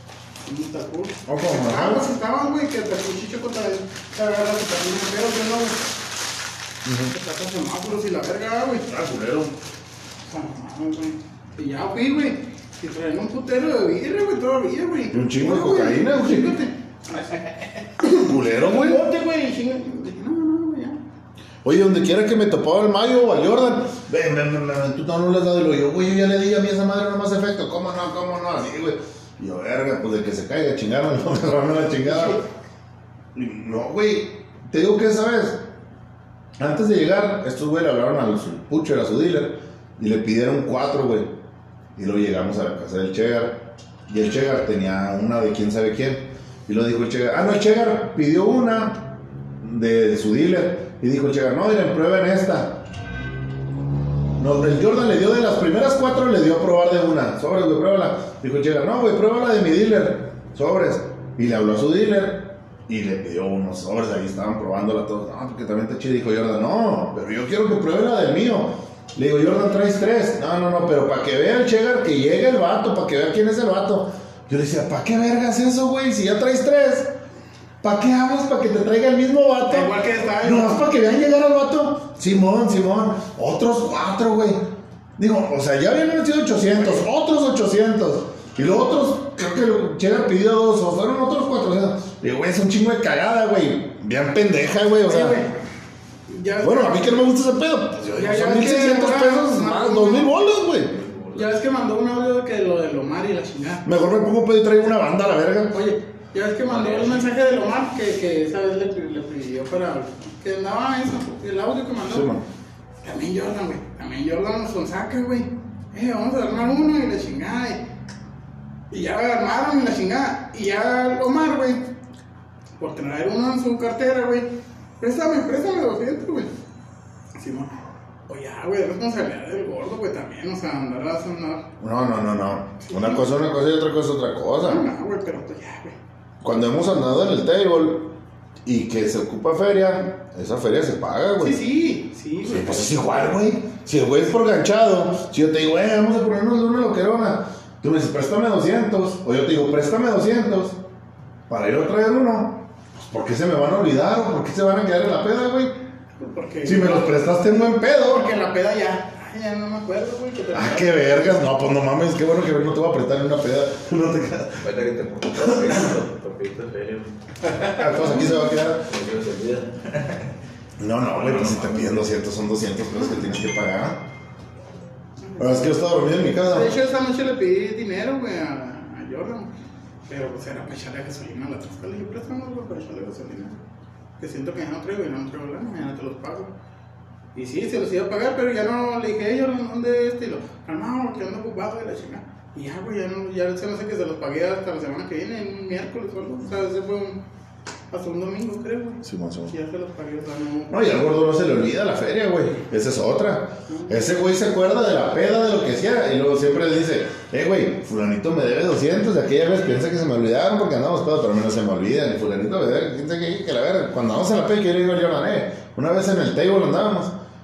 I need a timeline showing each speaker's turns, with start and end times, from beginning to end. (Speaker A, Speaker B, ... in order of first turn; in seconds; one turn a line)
Speaker A: 0.5-5.9
Speaker B: 1.3-2.1
Speaker B: 6.8-7.1
Speaker A: 7.1-8.9
Speaker B: 8.9-9.6
Speaker A: 10.3-21.0
Speaker B: 15.1-16.5
Speaker B: 18.1-19.0
Speaker B: 21.6-32.4
Speaker A: 32.1-32.4
Speaker B: 33.4-35.6
Speaker B: 36.6-41.3
Speaker B: 42.0-52.8
Speaker B: 54.4-77.1
Speaker B: 77.8-84.7
Speaker A: 79.7-80.9
Speaker B: 85.2-95.4
Speaker A: 95.1-95.6
Speaker A: 96.3-97.2
Speaker B: 96.6-101.0
Speaker A: 98.2-100.3
Speaker C: 100.7-101.5
Speaker A: 101.3-103.9
Speaker B: 103.8-105.8
Speaker A: 105.7-112.3
Speaker C: 106.7-107.3
Speaker B: 112.1-112.4
Speaker A: 113.0-117.8
Speaker A: 118.9-121.9
Speaker A: 122.8-124.5
Speaker A: 125.0-126.5
Speaker A: 127.3-127.8
Speaker A: 128.3-131.7
Speaker B: 131.8-134.9
Speaker A: 132.8-133.3
Speaker A: 134.6-136.0
Speaker B: 136.4-141.6
Speaker A: 141.4-143.2
Speaker B: 142.4-150.8
Speaker B: 151.5-155.8
Speaker A: 156.2-157.2
Speaker B: 156.7-158.3
Speaker A: 158.0-160.9
Speaker B: 160.5-164.7
Speaker C: 164.6-167.2
Speaker B: 165.4-165.8
Speaker A: 167.5-168.6
Speaker B: 167.8-168.9
Speaker C: 168.6-170.3
Speaker B: 170.8-174.0
Speaker C: 171.1-172.1
Speaker A: 175.2-175.6
Speaker B: 175.4-176.7
Speaker A: 176.5-179.5
Speaker A: 180.1-183.6
Speaker A: 184.2-186.5
Speaker A: 187.3-197.2
Speaker A: 197.9-200.8
Speaker B: 199.0-199.6
Speaker B: 200.7-217.2
Speaker A: 203.7-204.0